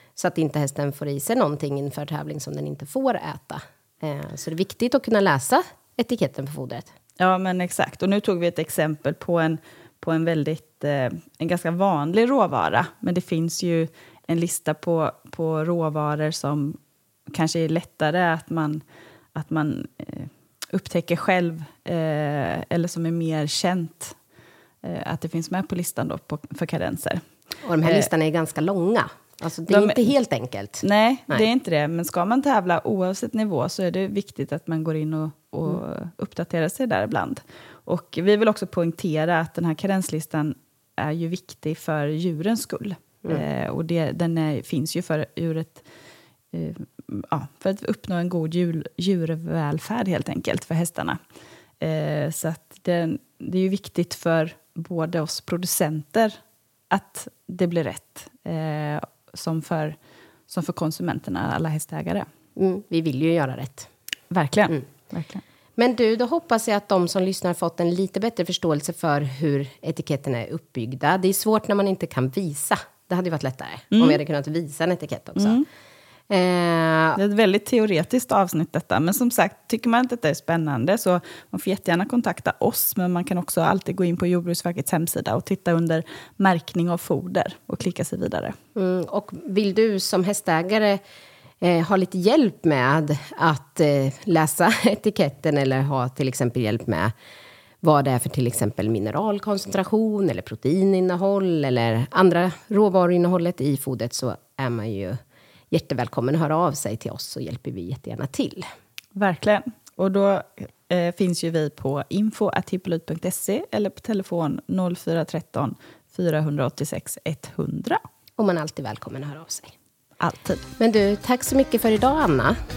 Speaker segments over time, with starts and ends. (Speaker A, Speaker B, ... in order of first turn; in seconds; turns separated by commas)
Speaker A: 0.2-6.9, Speaker B: 7.2-16.8, Speaker B: 17.3-18.8, Speaker B: 19.3-24.2, Speaker B: 24.8-27.2, Speaker A: 27.6-31.4, Speaker B: 29.7-30.1, Speaker B: 30.8-45.8, Speaker B: 46.5-51.2, Speaker B: 51.8-56.4, Speaker B: 56.9-60.0, Speaker B: 60.5-62.2, Speaker A: 62.5-63.9, Speaker B: 64.3-65.4, Speaker A: 65.8-75.6, Speaker B: 73.9-74.2, Speaker B: 75.3-75.6, Speaker A: 76.3-77.2, Speaker B: 77.2-88.5, Speaker A: 88.7-91.0, Speaker A: 91.6-97.1, Speaker A: 97.8-105.2, Speaker A: 105.7-108.6, Speaker B: 109.2-118.0, Speaker A: 118.4-119.7, Speaker B: 120.2-120.6, Speaker A: 120.8-122.6